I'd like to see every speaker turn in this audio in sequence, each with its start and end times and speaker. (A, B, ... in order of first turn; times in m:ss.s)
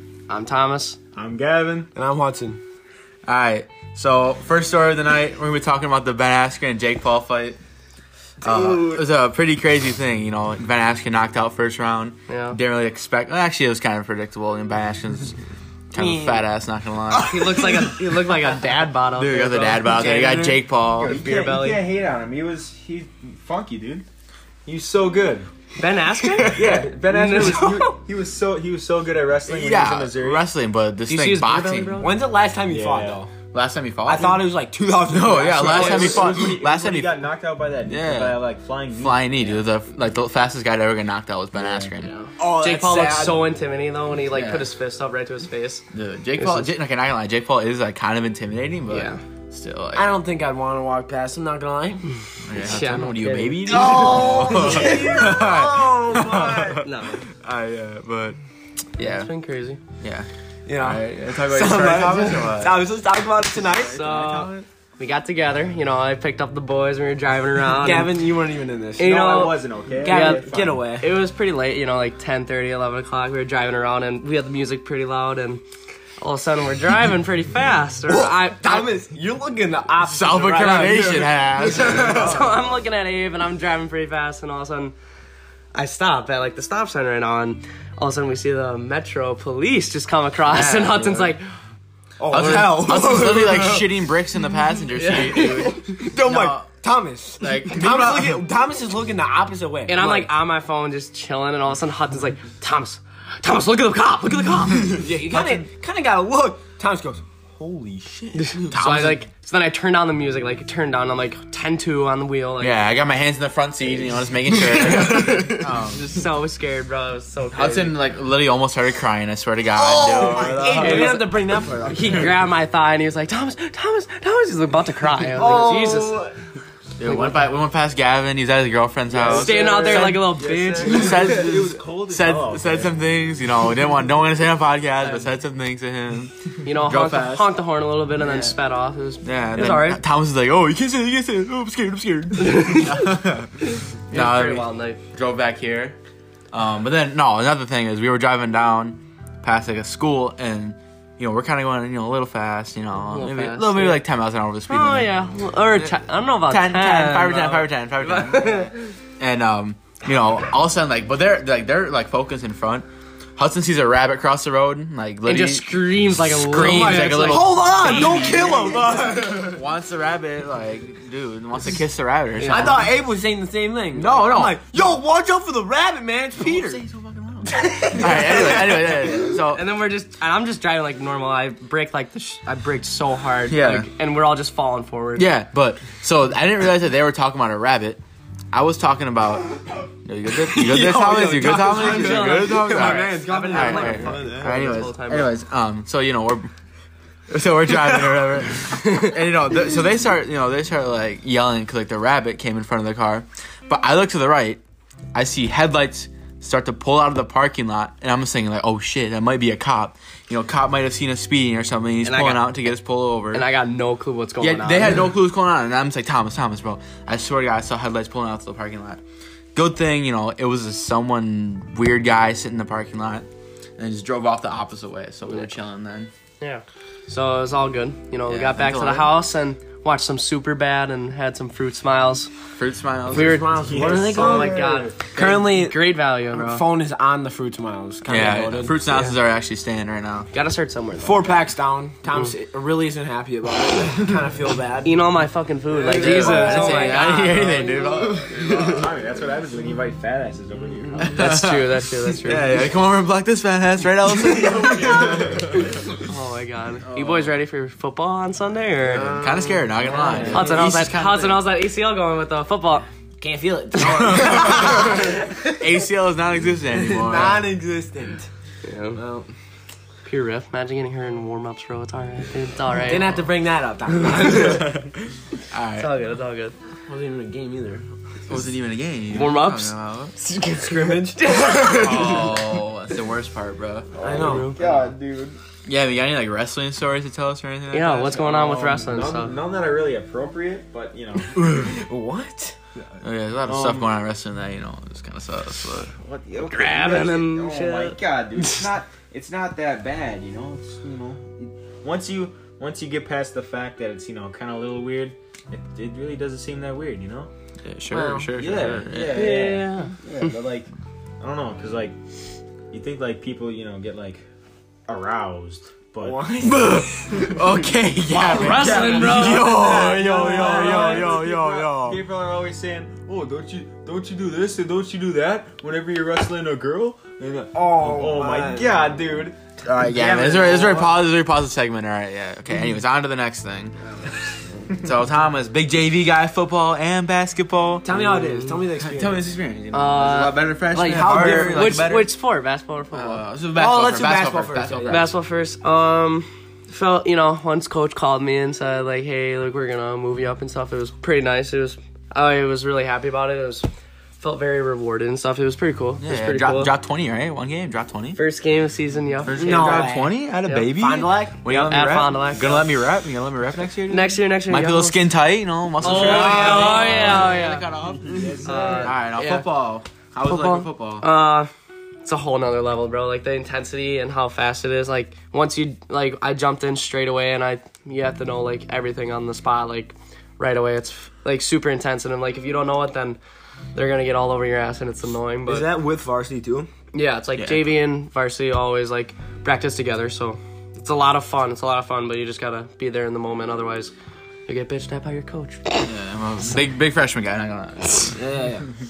0:00.3-0:01.0 A
0:01.2-0:01.9 B
0:02.0-0:02.6 C
0:03.3-0:07.6 D
0:08.4-0:15.4 D
0:08.4-0:09.0 C
0:12.3-0:12.6 A
0:15.9-0:17.8 D
0:15.9-0:16.4 C
0:17.1-0:17.9 C
0:17.3-0:20.5 A
0:19.2-0:21.2 D
0:19.9-0:20.6 C
0:20.9-0:24.1 B
0:21.0-0:21.8 A
0:24.6-0:25.5 B
0:25.8-0:28.0 A
0:26.5-0:30.4 B
0:26.6-0:26.9 C
0:29.5-0:32.1 D
0:31.1-0:32.1 A
0:32.0-0:33.3 C
0:32.7-0:33.2 B
0:33.5-0:37.2 D
0:34.0-0:36.6 C
0:35.6-0:39.6 B
0:37.8-0:38.4 D
0:39.0-0:42.1 D
0:41.6-0:41.9 B
0:42.3-0:43.4 C
0:42.4-0:45.8 A
0:44.3-0:44.7 D
0:45.9-0:50.1 D
0:46.4-0:46.7 A
0:48.9-0:49.2 A
0:50.0-0:52.1 C
0:52.4-0:58.4 D
0:52.6-0:55.0 A
0:53.6-0:56.9 C
0:56.8-0:57.2 A
0:59.0-0:59.3 D
0:59.2-0:59.8 A
1:00.0-1:02.8 D
1:00.7-1:04.0 C
1:03.7-1:04.7 D
1:03.9-1:08.1 A
1:07.8-1:11.2 C
1:09.0-1:15.6 A
1:09.0-1:10.8 B
1:16.2-1:18.9 A
1:18.1-1:22.6 C
1:20.0-1:22.5 D
1:21.8-1:24.9 A
1:25.7-1:31.4 A
1:30.5-1:31.4 D
1:32.2-1:34.0 C
1:32.3-1:36.7 D
1:35.0-1:36.0 A
1:36.0-1:40.3 C
1:37.4-1:38.4 D
1:39.9-1:45.1 A
1:44.8-1:48.6 C
1:45.3-1:45.7 D
1:48.4-1:52.8 A
1:48.6-1:49.2 D
1:52.6-1:56.2 D
1:55.0-1:55.4 C
1:55.1-1:58.0 A
1:57.5-2:01.3 D
1:59.7-2:02.3 C
2:00.3-2:06.2 A
2:05.3-2:06.4 C
2:07.0-2:17.5 D
2:07.0-2:07.4 A
2:09.2-2:13.0 B
2:09.2-2:10.3 C
2:09.2-2:11.3 A
2:15.0-2:15.3 A
2:16.6-2:20.0 A
2:18.2-2:18.6 D
2:19.2-2:23.6 D
2:22.4-2:23.1 A
2:23.6-2:25.0 A
2:24.1-2:26.0 D
2:26.5-2:42.9 D
2:33.1-2:34.0 A
2:34.7-2:38.9 A
2:43.4-2:52.9 D
2:45.3-2:48.6 A
2:46.5-2:49.6 C
2:52.4-2:52.8 A
2:52.4-2:56.8 C
2:53.9-2:54.6 D
2:56.4-2:59.6 D
2:57.5-2:59.0 C
2:59.5-3:05.3 A
3:03.5-3:03.9 D
3:05.2-3:08.0 D
3:08.5-3:16.5 D
3:10.5-3:14.8 C
3:11.5-3:15.4 A
3:17.3-3:24.6 D
3:25.1-3:33.5 D
3:32.0-3:32.5 A
3:33.3-3:35.0 A
3:34.4-3:39.0 D
3:39.6-3:43.3 D
3:43.8-3:46.1 D
3:46.4-3:52.3 A
3:48.3-3:49.2 D
3:52.6-3:53.6 D
3:53.1-3:58.8 C
3:53.1-3:56.6 A
3:53.7-3:55.0 B
3:58.0-4:00.3 D
3:58.8-3:59.2 A
4:00.3-4:01.3 A
4:01.0-4:05.0 C
4:04.8-4:08.8 A
4:05.7-4:07.2 C
4:05.8-4:08.6 D
4:08.0-4:08.3 C
4:08.3-4:11.2 B
4:11.0-4:12.6 A
4:11.0-4:15.6 D
4:14.4-4:15.7 B
4:16.0-4:19.1 A
4:16.8-4:17.3 D
4:18.9-4:21.4 D
4:19.2-4:20.6 C
4:19.9-4:20.5 B
4:20.2-4:22.9 A
4:23.2-4:25.5 C
4:23.8-4:27.4 D
4:26.8-4:28.3 C
4:28.6-4:29.0 A
4:28.9-4:29.3 C
4:30.0-4:33.2 A
4:32.8-4:34.8 C
4:34.0-4:34.8 A
4:35.5-4:35.9 D
4:35.8-4:36.6 A
4:36.9-4:37.9 C
4:38.3-4:40.2 D
4:39.1-4:39.7 A
4:40.2-4:42.4 C
4:41.2-4:42.2 A
4:41.7-4:43.9 D
4:44.0-4:44.6 C
4:44.0-4:44.9 A
4:44.0-4:45.4 B
4:45.7-4:48.8 D
4:47.7-4:49.4 A
4:48.8-4:51.5 B
4:51.4-4:51.7 D
4:51.5-4:52.6 C
4:53.0-4:55.9 D
4:53.5-4:53.9 B
4:56.0-5:07.3 B
4:56.4-4:58.0 A
5:07.6-5:09.4 D
5:07.9-5:08.6 C
5:08.4-5:12.0 B
5:09.1-5:10.0 A
5:12.7-5:14.2 B
5:14.9-5:16.2 B
5:16.0-5:17.4 C
5:16.4-5:22.0 D
5:18.3-5:19.6 A
5:18.4-5:29.4 B
5:18.5-5:21.1 C
5:27.5-5:29.2 C
5:29.6-5:33.8 D
5:29.9-5:31.0 C
5:34.7-5:38.1 D
5:37.8-5:39.3 C
5:38.2-5:38.6 A
5:38.8-5:42.1 D
5:39.7-5:40.4 A
5:40.7-5:42.0 C
5:41.3-5:43.2 A
5:42.9-5:45.1 D
5:43.5-5:45.1 C
5:44.9-5:53.7 A
5:54.2-5:56.7 A
5:56.0-5:58.2 D
5:58.2-5:59.9 A
5:59.2-6:11.0 D
5:59.3-6:00.2 C
6:00.8-6:01.4 C
6:01.4-6:02.7 A
6:03.9-6:05.0 A
6:05.8-6:07.7 A
6:05.8-6:07.2 C
6:05.9-6:06.8 B
6:08.0-6:08.9 B
6:08.1-6:08.9 C
6:08.4-6:09.5 A
6:10.2-6:11.5 A
6:12.0-6:23.2 A
6:23.7-6:25.7 A
6:25.5-6:26.7 C
6:26.9-6:33.9 A
6:27.4-6:27.7 D
6:34.5-6:35.9 A
6:35.8-6:38.3 D
6:38.1-6:38.7 C